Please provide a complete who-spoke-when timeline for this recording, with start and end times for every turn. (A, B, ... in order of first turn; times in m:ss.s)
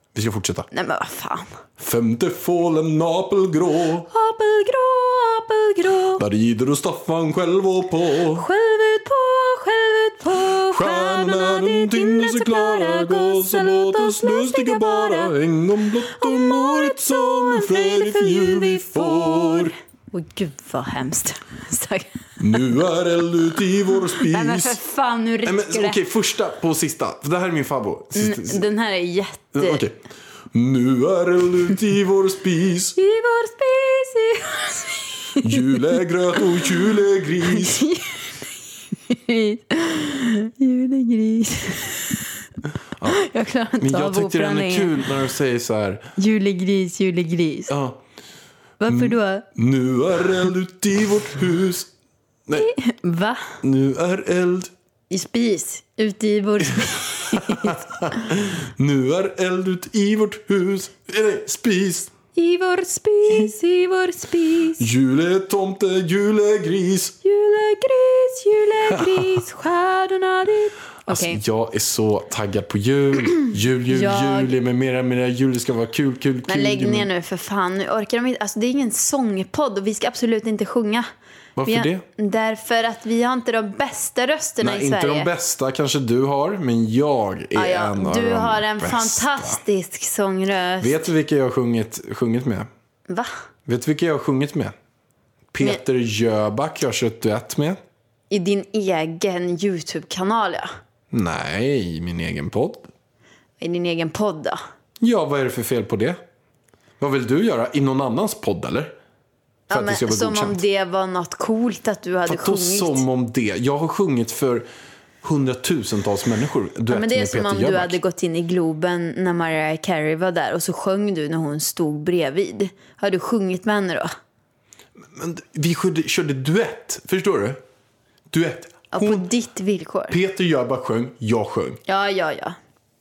0:00.1-0:00.7 A
0:00.7-0:01.5 B
0:01.8-0:04.1 A
0:04.1-0:06.2 B
0:06.2-0:08.4 A
0:08.3-0:15.3 B
0:10.7-0:19.7 A
0:16.0-0:22.8 B
0:22.4-0:24.8 A
0:23.9-0:26.0 B
0:25.4-0:28.6 A
0:28.1-0:29.8 B
0:29.5-0:30.0 A
0:30.5-0:33.0 A
0:33.0-0:36.6 B
0:35.4-0:37.8 A
0:37.5-0:38.4 B
0:39.0-0:42.3 B
0:43.1-0:45.1 B
0:43.8-0:46.1 A
0:46.2-0:47.7 B
0:47.7-0:48.0 A
0:48.8-0:49.5 B
0:48.9-0:51.9 A
0:52.5-0:53.6 B
0:53.6-0:54.7 A
0:55.1-0:58.2 B
0:57.3-1:02.1 A
1:02.3-1:04.9 B
1:04.8-1:07.2 A
1:07.2-1:11.4 B
1:08.9-1:09.4 A
1:11.1-1:17.1 A
1:13.9-1:14.5 B
1:16.5-1:21.0 B
1:21.6-1:22.0 A
1:21.6-1:25.3 B
1:24.6-1:29.6 A
1:27.5-1:31.0 B
1:30.8-1:32.7 A
1:33.6-1:34.7 A
1:35.5-1:37.8 A
1:38.3-1:40.7 B
1:41.1-1:42.9 A
1:43.6-1:44.6 B
1:45.0-1:46.2 A
1:47.0-1:49.0 A
1:49.7-1:50.6 A
1:49.7-1:53.0 B
1:52.2-1:54.7 A
1:55.2-1:58.0 A
1:56.9-2:04.1 B
2:05.1-2:07.6 A
2:08.3-2:09.3 A
2:08.9-2:10.2 B
2:10.1-2:11.8 A
2:11.9-2:12.6 B